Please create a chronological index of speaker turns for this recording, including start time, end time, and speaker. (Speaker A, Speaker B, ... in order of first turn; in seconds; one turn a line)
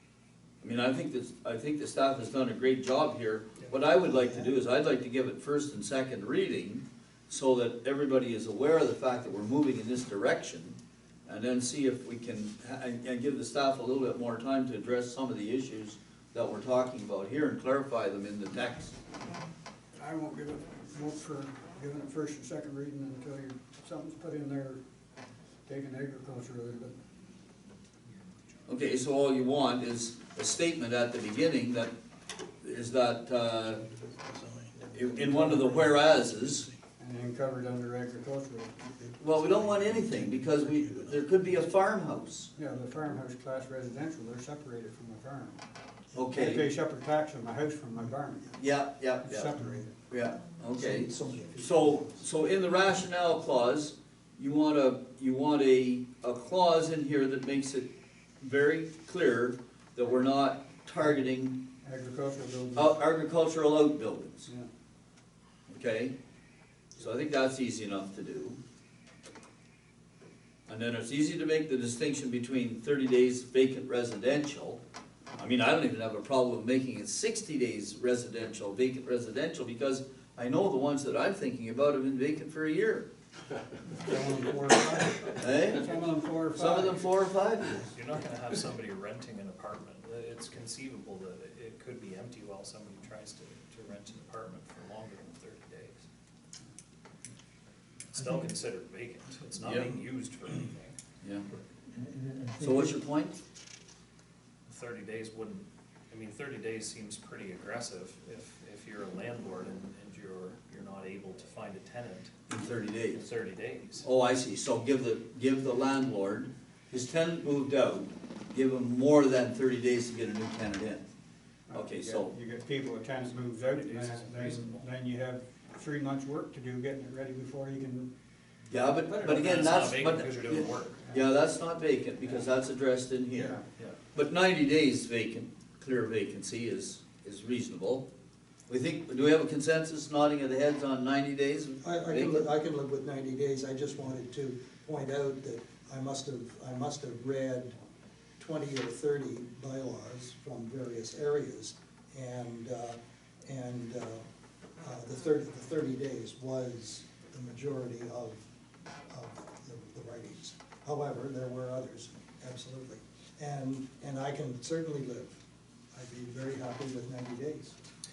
Speaker A: 0.6-19.0
Speaker B: 19.9-24.8
Speaker B: 25.7-27.0
Speaker A: 28.7-31.9
Speaker A: 32.6-33.8
Speaker C: 34.1-35.3
Speaker A: 34.9-36.7
Speaker B: 37.0-39.0
Speaker A: 39.2-42.5
Speaker B: 42.5-45.6
Speaker A: 46.1-46.7
Speaker B: 46.3-48.5
Speaker A: 48.6-49.6
Speaker B: 49.2-50.0
Speaker A: 50.1-57.9
Speaker C: 50.8-52.3
Speaker A: 58.4-61.6
Speaker B: 61.8-63.0
Speaker A: 62.8-64.5
Speaker A: 65.7-66.2
Speaker A: 67.0-68.6
Speaker A: 70.7-74.8
Speaker A: 75.4-83.1
Speaker B: 83.9-87.0
Speaker A: 85.4-85.9
Speaker A: 86.5-87.8
Speaker D: 87.9-96.0
Speaker D: 98.1-101.0
Speaker A: 99.6-100.0
Speaker A: 101.2-101.5
Speaker A: 102.5-103.4
Speaker D: 104.7-112.3
Speaker A: 112.5-113.2
Speaker D: 113.1-114.1
Speaker A: 114.0-121.0
Speaker B: 121.7-128.1
Speaker A: 121.7-122.3
Speaker D: 123.7-124.8
Speaker A: 128.7-133.6
Speaker D: 129.1-131.0
Speaker B: 133.3-133.6
Speaker D: 133.8-134.0
Speaker A: 134.2-138.1
Speaker A: 138.7-142.5
Speaker C: 141.8-147.8
Speaker C: 148.4-154.3
Speaker C: 154.8-158.4
Speaker C: 159.1-165.3
Speaker C: 165.9-167.8